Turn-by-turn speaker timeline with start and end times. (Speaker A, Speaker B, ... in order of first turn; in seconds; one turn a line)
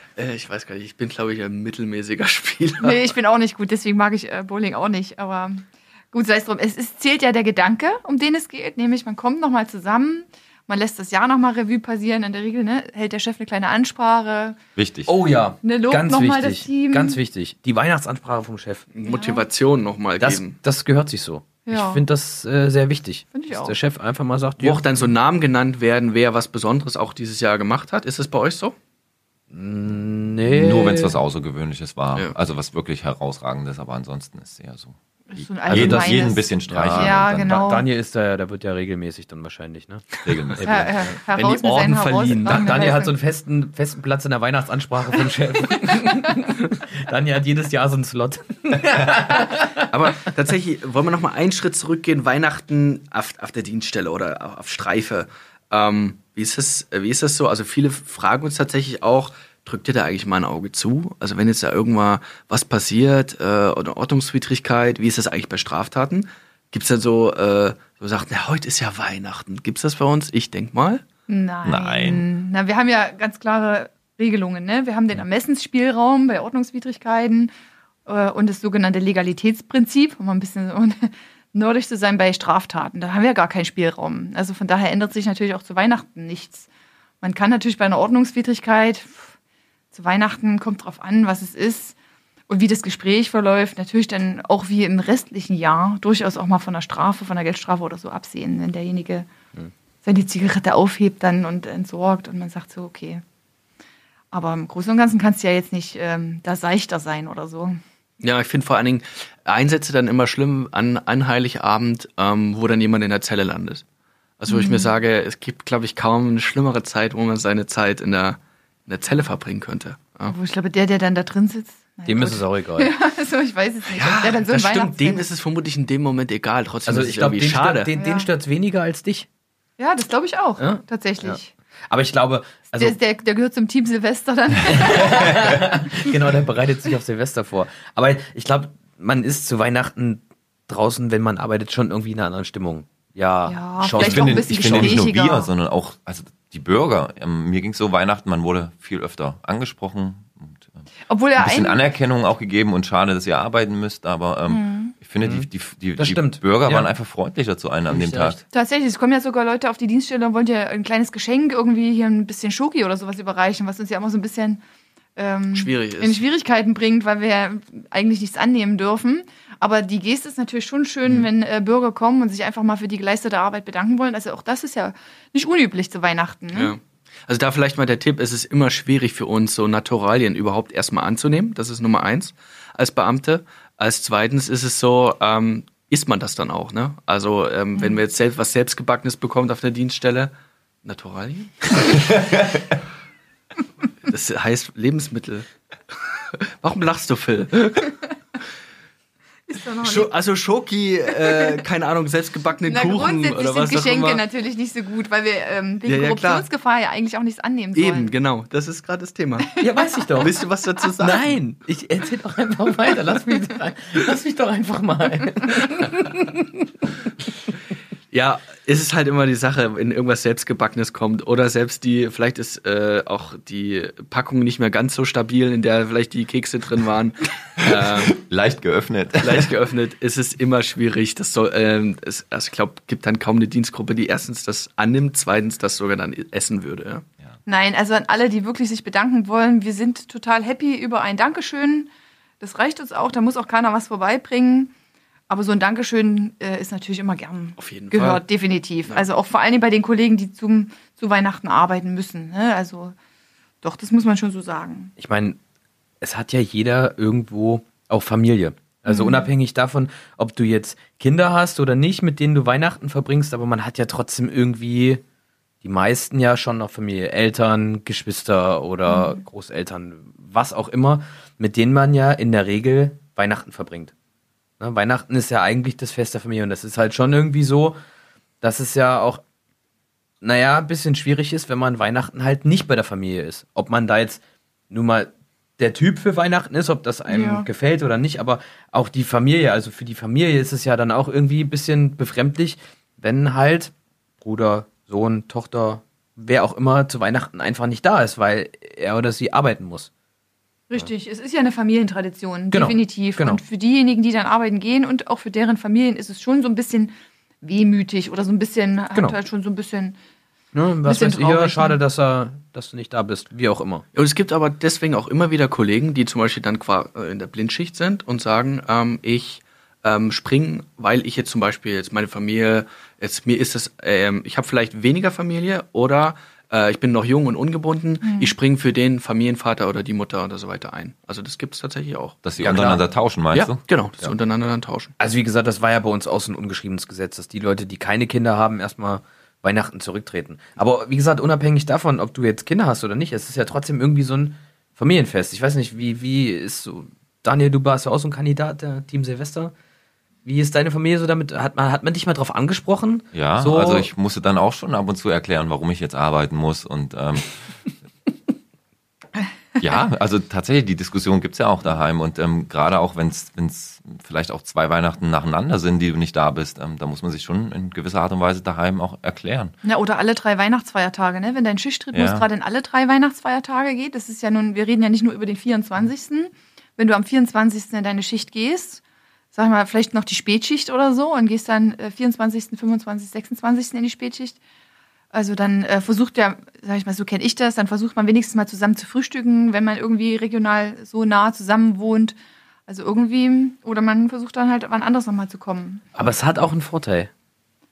Speaker A: 0.2-3.0
Speaker B: 2.8-14.6
Speaker C: 14.8-15.1
Speaker D: 15.1-18.9
Speaker B: 15.6-17.2
Speaker A: 18.9-20.6
Speaker B: 19.1-19.4
Speaker D: 20.2-25.1
Speaker B: 21.7-22.0
Speaker B: 23.3-23.8
Speaker A: 24.6-28.8
Speaker D: 29.5-31.2
Speaker C: 30.5-37.6
Speaker B: 35.3-37.9
Speaker D: 35.7-40.9
Speaker C: 40.2-41.1
Speaker B: 40.6-43.2
Speaker A: 41.4-42.9
Speaker D: 42.4-49.9
Speaker A: 49.9-71.0
Speaker B: 71.3-77.5
Speaker C: 71.7-72.3
Speaker B: 78.1-86.7
Speaker B: 87.2-89.3
Speaker B: 89.9-92.0
Speaker B: 92.5-99.3
Speaker B: 100.0-103.2
Speaker B: 104.3-107.8
Speaker A: 108.2-113.8
Speaker A: 114.4-120.3
Speaker B: 114.5-114.9
Speaker B: 120.3-125.3
Speaker D: 122.1-122.9
Speaker A: 123.9-127.9
Speaker D: 126.9-129.3
Speaker B: 128.0-128.3
Speaker B: 129.8-131.5
Speaker D: 130.6-131.4
Speaker D: 131.9-133.0
Speaker B: 132.7-135.6
Speaker D: 134.7-145.1
Speaker B: 143.5-145.5
Speaker C: 143.9-150.7
Speaker B: 151.1-151.8
Speaker C: 151.4-158.4
Speaker B: 154.5-154.9
Speaker D: 155.2-156.9
Speaker D: 157.9-158.4
Speaker B: 158.5-164.6
Speaker B: 165.2-176.8
Speaker A: 165.5-166.2
Speaker A: 176.5-190.3
Speaker A: 190.8-192.2
Speaker A: 194.1-197.9
Speaker B: 199.5-200.1
Speaker A: 199.8-204.2
Speaker B: 202.7-208.1
Speaker A: 205.9-206.5
Speaker A: 207.7-209.5
Speaker B: 209.6-210.1
Speaker D: 209.6-210.4
Speaker A: 210.2-211.3
Speaker D: 211.0-216.6
Speaker A: 218.1-228.2
Speaker C: 227.9-229.5
Speaker A: 229.2-237.0
Speaker B: 237.5-244.7
Speaker B: 245.3-252.9
Speaker A: 247.6-248.2
Speaker B: 253.6-254.9
Speaker D: 255.0-255.4
Speaker D: 256.0-265.0
Speaker B: 258.9-259.3
Speaker D: 265.6-273.9
Speaker B: 268.9-269.2
Speaker D: 274.6-277.8
Speaker D: 278.4-279.2
Speaker D: 280.2-299.9
Speaker B: 287.1-287.5
Speaker B: 300.7-310.0
Speaker D: 302.5-303.4
Speaker D: 310.5-313.9
Speaker B: 310.8-311.8
Speaker A: 313.9-332.2
Speaker C: 332.2-333.6
Speaker D: 332.4-332.8
Speaker A: 333.3-334.9
Speaker D: 335.0-349.5
Speaker D: 350.2-353.9
Speaker C: 353.1-357.5
Speaker C: 359.6-369.5
Speaker B: 369.6-378.8
Speaker C: 371.9-372.3
Speaker B: 379.3-384.4
Speaker B: 385.1-392.1
Speaker B: 392.7-395.8
Speaker D: 395.9-397.1